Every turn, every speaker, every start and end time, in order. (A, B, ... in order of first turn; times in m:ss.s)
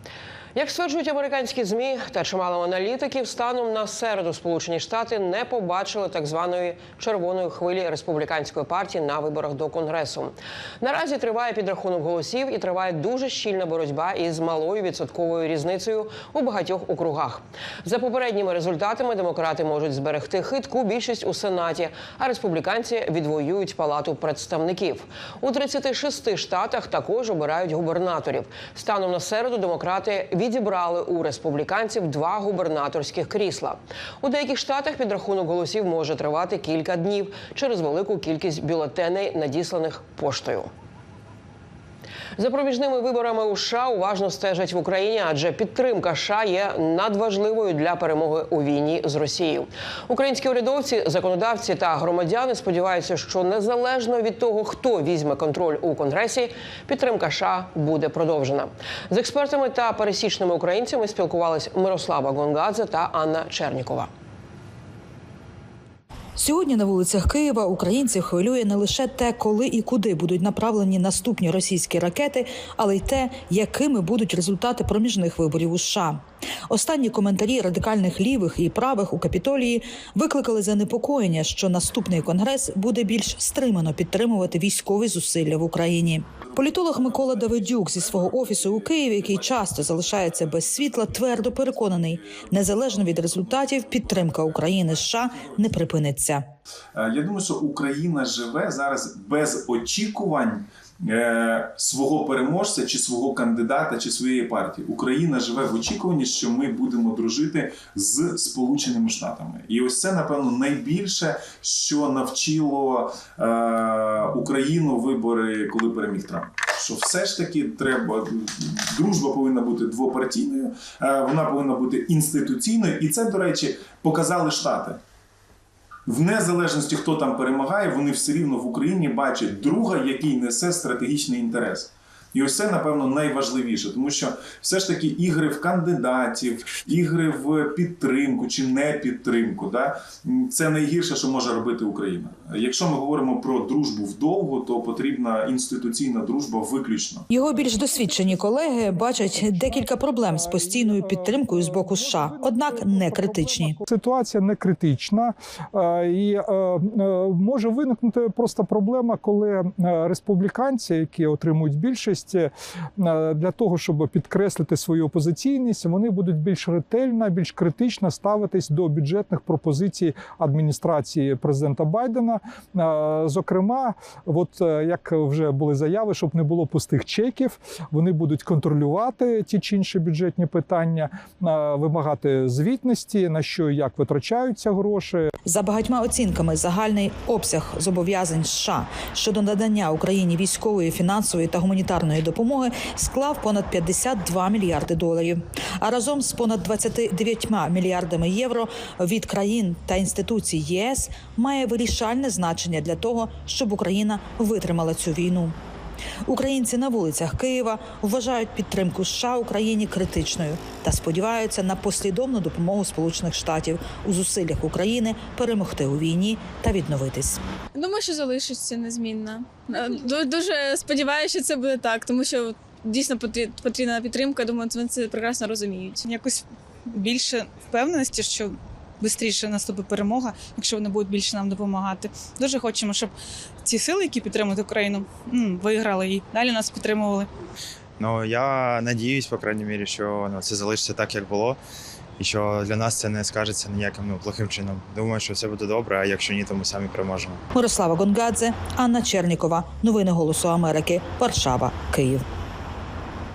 0:00.5-0:40.7 A
0:42.4-1:04.1 A
1:06.4-1:36.4 B
1:26.4-1:35.7 C
1:36.9-2:05.0 C
2:06.1-2:27.2 C
2:27.3-2:33.8 B
2:29.1-3:05.3 D
3:05.4-3:25.5 B
3:26.2-3:37.4 B
3:37.7-3:46.0 E
3:46.0-3:53.1 F
3:53.6-3:57.3 F
3:58.0-4:01.6 G
4:02.2-4:07.4 G
4:07.5-4:12.2 B